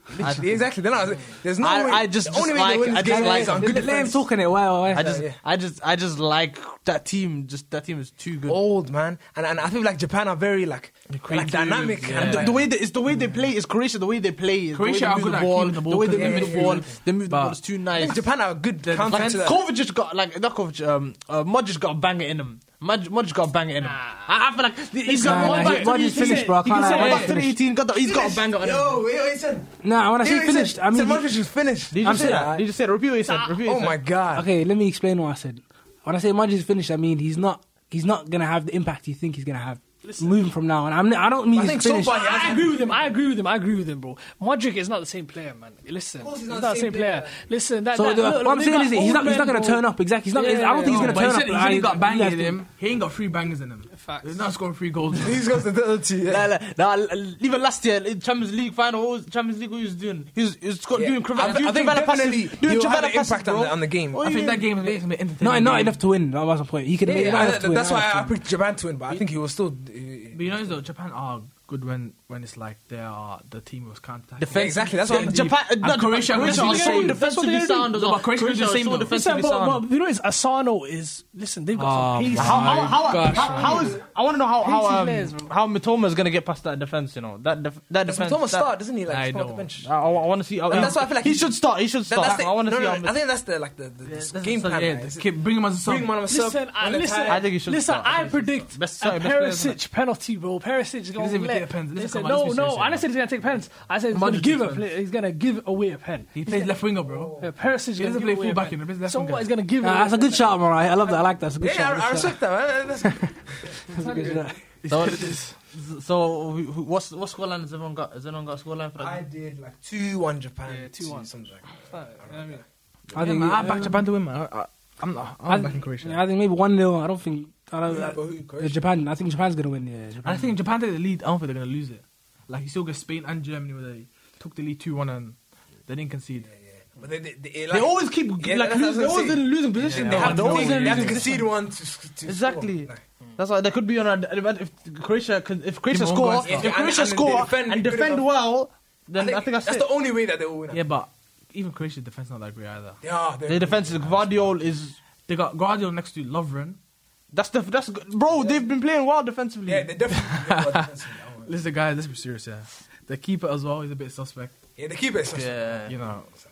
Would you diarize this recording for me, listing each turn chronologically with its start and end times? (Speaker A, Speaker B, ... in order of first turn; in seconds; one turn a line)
Speaker A: 0.1-4.3
Speaker B: 0.2-0.6
Speaker B: 1.6-3.8
Speaker C: 3.0-5.2
Speaker A: 4.8-5.4
Speaker B: 4.9-8.6
Speaker A: 8.5-12.7
Speaker D: 11.1-12.7
Speaker B: 12.0-18.2
Speaker D: 14.7-17.6
Speaker A: 16.1-16.9
Speaker A: 18.0-19.6
Speaker B: 18.9-29.0
Speaker E: 23.8-24.3
Speaker E: 25.1-27.4
Speaker C: 25.2-27.5
Speaker A: 26.9-27.3
Speaker A: 27.9-32.6
Speaker C: 29.8-31.3
Speaker B: 31.9-34.0
Speaker C: 32.0-32.6
Speaker E: 33.3-33.6
Speaker A: 33.6-34.5
Speaker C: 34.4-42.2
Speaker B: 40.0-40.3
Speaker A: 41.5-43.1
Speaker E: 42.1-51.3
Speaker A: 46.2-47.4
Speaker C: 47.9-52.6
Speaker D: 50.8-55.5
Speaker E: 53.9-54.5
Speaker A: 55.1-56.5
Speaker B: 56.3-65.0
Speaker A: 60.9-64.3
Speaker D: 64.2-66.0
Speaker C: 65.4-68.3
Speaker A: 67.0-70.7
Speaker D: 70.3-77.2
Speaker B: 74.4-79.8
Speaker A: 74.5-75.6
Speaker E: 76.4-78.0
Speaker D: 77.9-79.1
Speaker E: 79.1-84.0
Speaker D: 81.8-84.0
Speaker B: 82.3-88.7
Speaker E: 84.6-85.5
Speaker A: 88.0-89.9
Speaker D: 89.1-89.7
Speaker B: 89.8-93.2
Speaker A: 90.7-97.5
Speaker B: 94.1-95.1
Speaker D: 94.8-96.1
Speaker E: 96.3-106.8
Speaker B: 97.3-99.8
Speaker D: 101.2-103.0
Speaker B: 104.1-104.9
Speaker D: 106.3-107.3
Speaker A: 107.0-107.5
Speaker E: 107.4-110.6
Speaker D: 108.0-109.5
Speaker C: 109.8-112.4
Speaker A: 111.6-114.4
Speaker E: 114.0-114.4
Speaker C: 114.0-114.6
Speaker D: 114.8-115.5
Speaker B: 114.9-119.2
Speaker A: 119.0-122.6
Speaker E: 120.7-121.3
Speaker D: 123.1-126.2
Speaker C: 123.1-124.0
Speaker C: 125.5-130.6
Speaker A: 127.9-128.8
Speaker D: 130.2-135.3
Speaker D: 135.9-136.5
Speaker A: 136.9-143.0
Speaker B: 137.7-141.4
Speaker D: 139.8-141.4
Speaker B: 142.2-149.9
Speaker D: 145.9-146.7
Speaker A: 146.4-148.3
Speaker A: 149.2-150.8
Speaker D: 150.7-153.0
Speaker A: 153.0-154.5
Speaker B: 153.5-155.0
Speaker D: 155.3-156.8
Speaker B: 157.3-159.9
Speaker A: 158.4-158.6
Speaker A: 159.7-161.6
Speaker D: 160.3-160.9
Speaker D: 161.4-164.5
Speaker A: 164.8-165.8
Speaker B: 165.3-165.9
Speaker D: 165.9-166.3